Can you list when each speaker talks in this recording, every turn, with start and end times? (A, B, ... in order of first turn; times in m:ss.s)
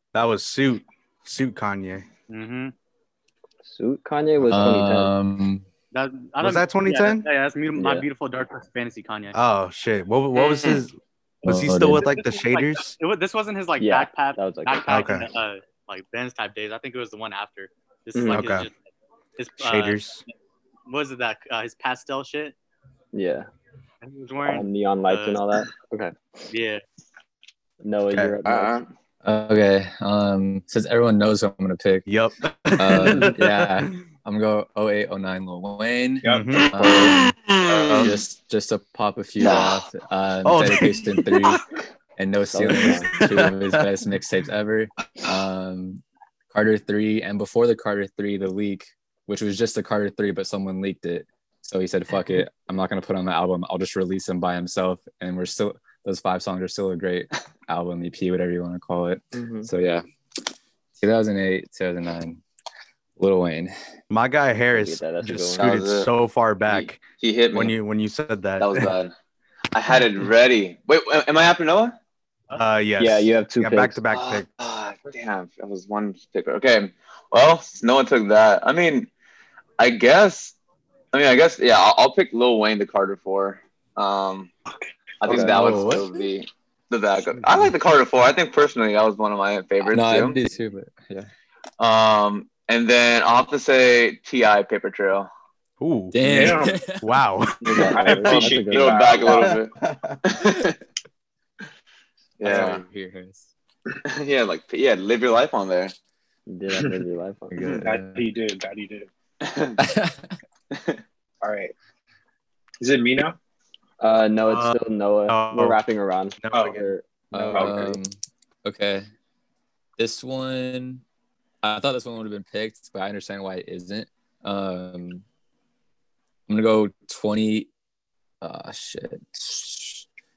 0:00.1-0:02.1 A
0:02.3-0:02.7 B
0:03.6-0:05.1 C
0:04.5-0:05.6 D
0:05.9-0:09.4 B
0:06.4-0:07.2 A
0:07.7-0:08.1 C
0:09.3-0:12.9 A
0:10.3-0:10.8 E
0:11.4-0:12.1 D
0:12.0-0:18.7 B
0:13.8-0:15.0 C
0:14.9-0:15.3 A
0:18.1-0:18.4 C
0:18.3-0:18.7 A
0:19.4-0:20.2 B
0:19.6-0:20.2 A
0:20.9-0:22.5 B
0:23.1-0:23.5 C
0:24.0-0:25.4 B
0:24.4-0:26.1 C
0:26.5-0:26.8 B
0:27.8-0:28.8 C
0:28.4-0:28.9 E
0:29.2-0:32.1 D
0:32.1-0:33.9 A
0:32.8-0:37.3 D
0:36.2-0:36.7 F
0:36.2-0:36.7 A
0:36.8-0:37.1 C
0:36.8-0:38.2 E
0:37.8-0:38.2 A
0:37.8-0:41.6 D
0:39.4-0:39.8 E
0:40.4-0:41.6 A
0:42.2-1:00.0 D
0:42.5-0:43.1 C
0:43.1-0:43.9 A
0:59.3-0:59.7 C
1:01.0-1:02.4 D
1:03.2-1:03.7 D
1:04.1-1:08.9 A
1:04.7-1:05.7 C
1:05.6-1:06.1 E
1:06.7-1:07.7 E
1:08.6-1:09.1 E
1:09.7-1:12.0 E
1:12.5-1:14.4 A
1:13.0-1:14.0 C
1:14.1-1:19.1 E
1:19.8-1:20.5 E
1:21.1-1:24.5 E
1:25.2-1:30.4 E
1:25.2-1:25.7 C
1:25.3-1:26.1 D
1:27.4-1:27.7 A
1:29.8-1:31.3 D
1:31.8-1:35.3 E
1:35.8-1:38.0 A
1:36.1-1:37.0 D
1:36.2-1:36.8 F
1:37.6-1:39.2 C
1:37.7-1:39.6 F
1:38.3-1:40.8 E
1:39.3-1:40.4 A
1:42.4-1:42.8 E
1:42.4-1:43.5 D
1:44.0-1:45.9 E
1:46.5-1:47.6 C
1:47.5-1:48.2 D
1:47.6-1:49.1 F
1:49.4-1:49.8 E
1:49.8-1:50.4 D
1:50.7-1:51.0 E
1:51.4-1:51.7 F
1:52.8-1:53.4 F
1:54.0-1:57.0 C
1:54.5-1:55.8 A
1:56.4-1:57.7 A
1:57.3-1:59.0 D
1:57.5-1:57.8 F
1:57.7-1:58.0 C
2:00.0-2:01.0 D
2:01.6-2:05.2 D
2:06.5-2:07.7 D
2:08.4-2:10.0 D